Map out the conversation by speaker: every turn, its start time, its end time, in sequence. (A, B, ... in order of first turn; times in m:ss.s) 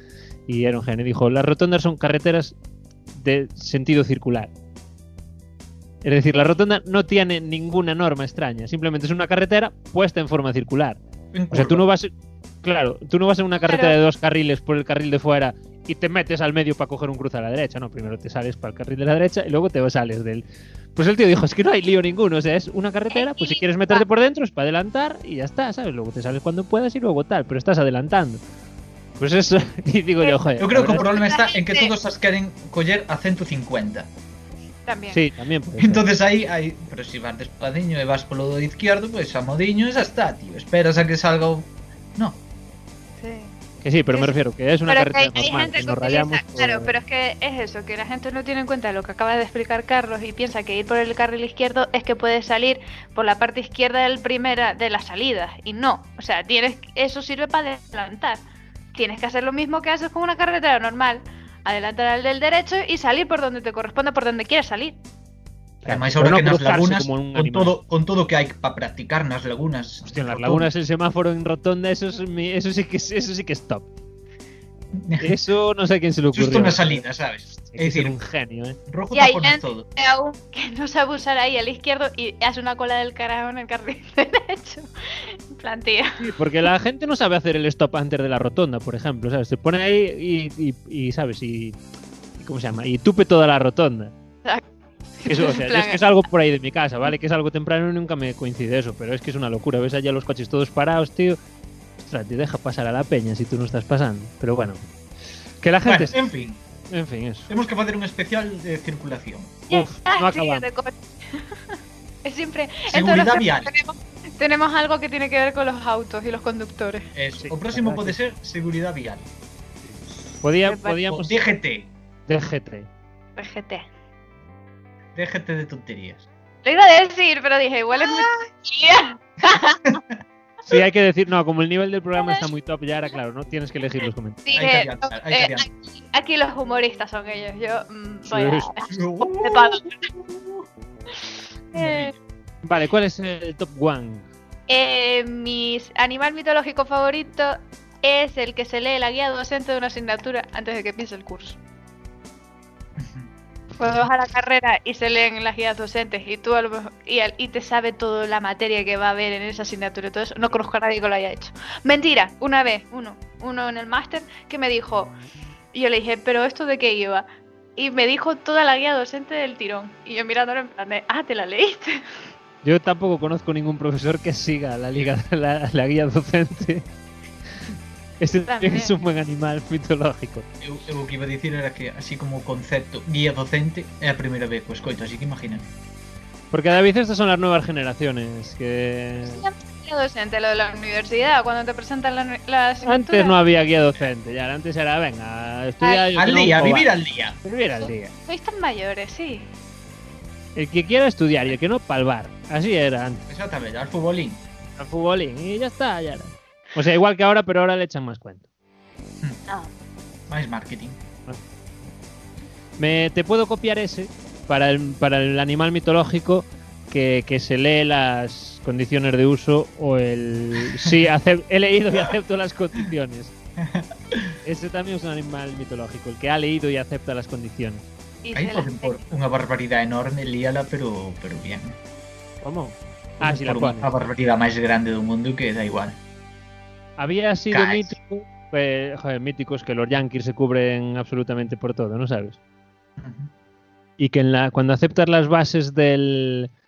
0:00.5-0:02.6 A
0:03.1-0:04.5 A
0:06.0-0:11.0 A
0:11.3-0:11.8 B
0:11.5-0:12.1 A
0:12.6-0:20.4 A
0:13.6-0:14.0 C
0:21.0-0:28.4 A
0:23.1-0:24.0 C
0:29.2-0:31.1 A
0:30.6-0:34.1 B
0:31.0-0:31.9 C
0:34.9-0:35.2 C
0:35.1-0:36.1 A
0:35.8-0:42.4 B
0:43.2-0:43.6 C
0:43.8-0:46.9 A
0:44.1-0:58.4 C
0:58.9-1:05.0 C
1:05.8-1:07.8 A
1:05.9-1:10.7 B
1:10.1-1:13.9 A
1:14.9-1:15.4 B
1:15.2-1:18.8 A
1:16.3-1:18.2 B
1:18.9-1:19.9 B
1:19.1-1:26.2 C
1:26.2-1:31.8 A
1:32.4-1:34.1 A
1:35.2-1:36.0 C
1:35.3-1:41.4 A
1:42.0-1:44.8 A
1:45.6-1:46.2 A
1:45.8-1:46.6 B
1:46.9-1:47.5 A
1:47.5-1:49.6 B
1:49.7-1:51.5 C
1:49.7-1:50.6 A
1:52.2-1:57.1 C
1:52.9-1:53.7 B
1:57.2-1:59.3 B
1:57.4-1:58.2 A
1:59.8-2:01.3 A
2:00.7-2:01.0 C
2:01.1-2:01.9 B
2:02.3-2:02.9 A
2:03.4-2:03.9 C
2:05.2-2:06.3 B
2:06.6-2:10.0 C
2:10.7-2:14.4 A
2:14.4-2:20.0 C
2:14.5-2:15.7 B
2:18.3-2:18.7 A
2:18.9-2:20.6 B
2:21.7-2:22.2 B
2:21.7-2:22.1 C
2:22.6-2:24.3 A
2:24.7-2:31.6 C
2:33.0-2:33.3 B
2:33.8-2:45.2 C
2:45.7-2:47.2 C
2:47.8-2:52.0 C
2:52.6-2:56.8 A
2:58.2-3:00.5 A
2:58.5-2:58.9 C
3:00.6-3:05.7 B
3:06.5-3:09.4 A
3:09.2-3:13.4 C
3:12.8-3:16.9 A
3:15.8-3:16.1 C
3:16.2-3:17.4 B
3:17.4-3:18.1 A
3:17.8-3:19.5 C
3:20.6-3:23.3 A
3:23.3-3:24.4 B
3:24.8-3:28.4 A
3:30.3-3:31.0 B
3:32.8-3:43.3 A
3:43.6-3:44.3 B
3:44.4-3:47.9 A
3:48.2-3:49.1 C
3:48.3-3:51.8 B
3:52.4-3:53.9 A
3:53.2-3:56.0 B
3:57.0-4:02.4 A
3:57.5-3:58.0 B
4:03.0-4:03.3 B
4:04.0-4:06.5 A